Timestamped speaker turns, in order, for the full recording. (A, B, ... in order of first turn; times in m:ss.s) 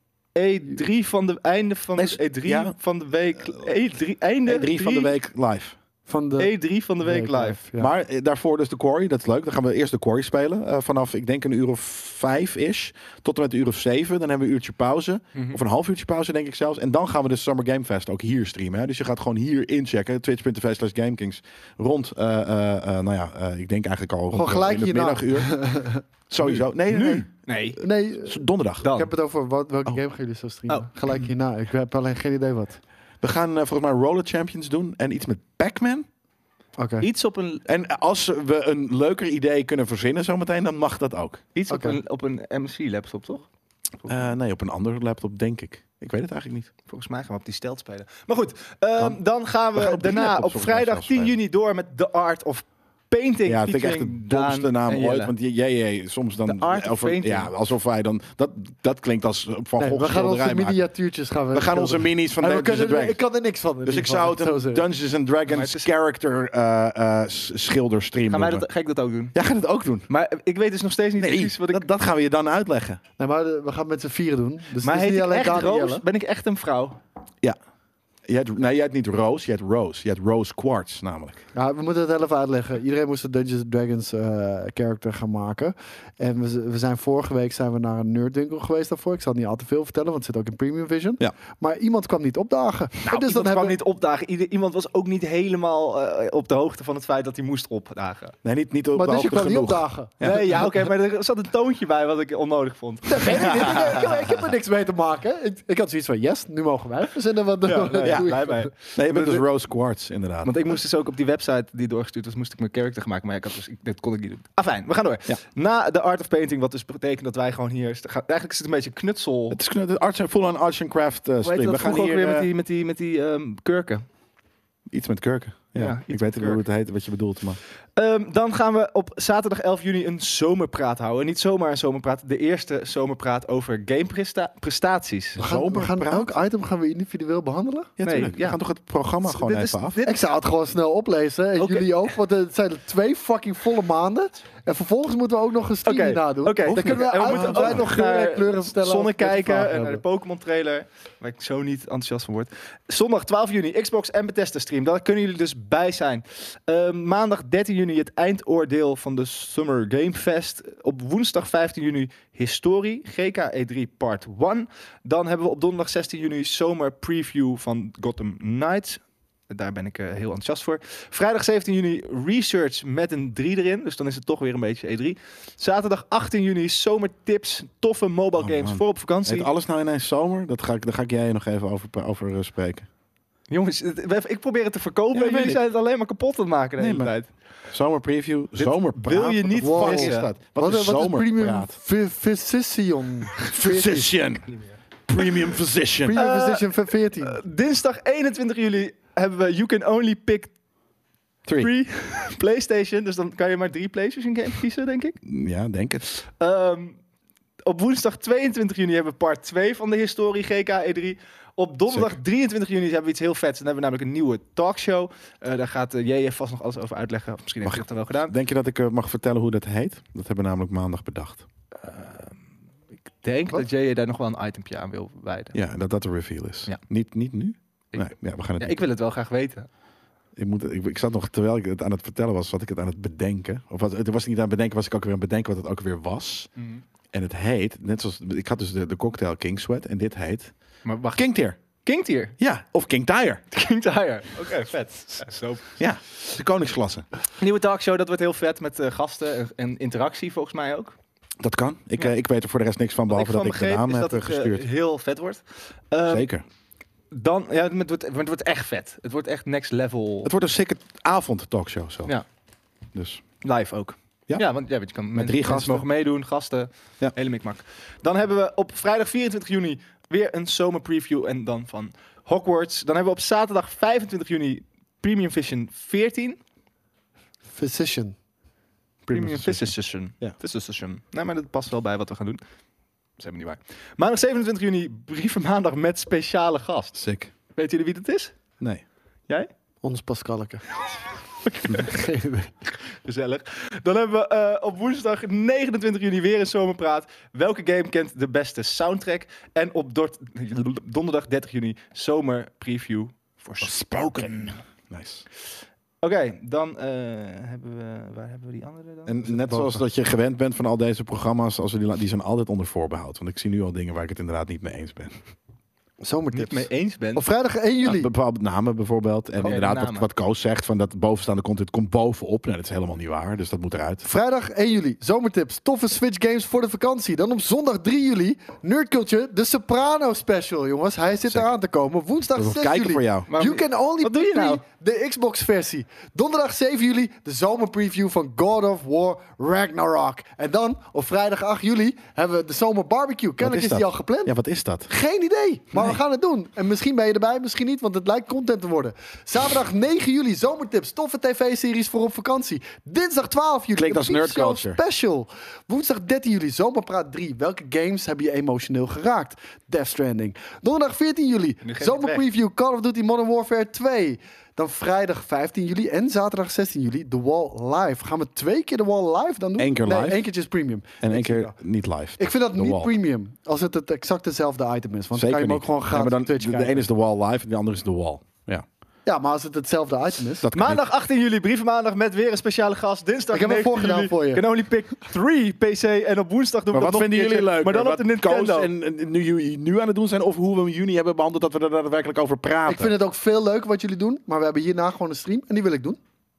0:00.3-0:05.1 A
0:02.0-0:02.7 B
0:04.4-0:05.8 B
0:06.0-0:07.9 C
0:06.4-0:07.6 A
0:07.8-0:25.6 B
0:15.3-0:15.6 A
0:24.3-0:26.0 C
0:26.3-0:27.3 B
0:26.4-0:27.8 A
0:27.8-0:32.8 C
0:28.2-0:28.9 B
0:28.8-0:29.1 A
0:33.2-0:36.1 B
0:36.8-0:37.1 C
0:37.0-0:37.6 A
0:37.6-0:41.4 B
0:41.5-0:43.5 A
0:41.7-0:42.0 C
0:44.0-0:46.7 B
0:46.9-0:55.3 A
0:49.0-0:51.3 B
0:53.4-1:00.8 B
0:56.4-0:57.5 A
0:59.8-1:04.8 C
1:01.5-1:03.2 B
1:03.8-1:08.6 B
1:05.5-1:05.9 A
1:08.3-1:09.3 A
1:09.3-1:10.1 B
1:10.1-1:11.8 A
1:11.2-1:13.0 B
1:13.2-1:16.0 C
1:14.8-1:17.0 A
1:18.3-1:21.4 B
1:21.5-1:33.8 C
1:33.1-1:33.4 B
1:33.1-1:38.3 A
1:38.4-1:40.7 B
1:38.9-1:40.6 C
1:40.2-1:44.1 A
1:43.1-1:48.7 C
1:43.3-1:44.0 B
1:47.6-1:49.4 A
1:48.0-1:50.5 B
1:50.4-1:59.6 A
1:59.5-2:02.5 B
2:01.4-2:04.0 A
2:04.9-2:07.6 B
2:05.7-2:06.6 A
2:08.0-2:15.4 A
2:15.4-2:16.4 B
2:15.4-2:17.9 C
2:18.0-2:20.0 B
2:18.0-2:18.6 A
2:19.2-2:20.3 A
2:20.0-2:30.0 C
2:21.6-2:21.9 A
2:25.8-2:59.5 A
2:26.6-2:27.9 B
2:58.4-3:02.9 B
3:03.5-3:07.3 A
3:05.1-3:05.6 B
3:06.8-3:11.8 B
3:08.6-3:10.3 A
3:09.6-3:14.2 C
3:13.4-3:14.4 B
3:15.1-3:16.2 B
3:16.0-3:17.4 C
3:16.1-3:16.7 A
3:17.2-3:20.5 A
3:21.6-3:25.2 A
3:25.2-3:26.0 B
3:26.4-3:27.0 A
3:27.6-3:38.3 A
3:31.9-3:32.2 B
3:37.6-3:41.4 B
3:41.8-3:42.4 A
3:43.1-3:45.5 A
3:45.5-3:48.8 B
3:47.9-3:49.7 A
3:50.3-3:56.5 B
3:56.6-3:56.8 A
3:57.1-4:00.5 B
4:00.8-4:02.3 A
4:01.1-4:01.6 B
4:02.4-4:03.4 B
4:03.5-4:05.8 A
4:05.8-4:07.1 B
4:07.4-4:10.9 A
4:11.4-4:14.7 B
4:13.1-4:16.3 A
4:16.0-4:16.4 B
4:17.1-4:20.3 A
4:20.2-4:22.2 B
4:22.9-4:23.2 B
4:23.4-4:36.4 A
4:24.3-4:25.9 B
4:37.5-4:38.2 C
4:39.1-4:40.4 B
4:39.1-4:42.4 A
4:43.2-4:47.0 A
4:46.9-4:47.3 B
4:47.5-4:48.4 A
4:49.8-4:50.8 C
4:51.5-4:51.8 A
4:51.8-4:52.5 C
4:53.0-5:04.6 A
5:03.6-5:05.2 B
5:06.0-5:09.8 A
5:09.0-5:15.2 B
5:16.0-5:18.1 C
5:16.3-5:17.2 A
5:17.8-5:24.0 B
5:19.4-5:20.1 A
5:24.0-5:44.3 C
5:31.2-5:31.5 B
5:32.3-5:33.3 B
5:33.3-5:34.6 A
5:43.4-5:44.9 B
5:44.9-6:11.5 C
5:45.7-5:46.0 B
5:53.8-5:54.8 B
6:01.6-6:02.2 A
6:09.6-6:10.2 B
6:11.0-6:12.9 B
6:12.2-6:16.8 C
6:15.1-6:18.6 B
6:19.0-6:20.5 C
6:20.4-6:20.9 B
6:20.5-6:28.7 A
6:23.3-6:24.4 C
6:26.7-6:32.9 B
6:32.6-6:36.0 C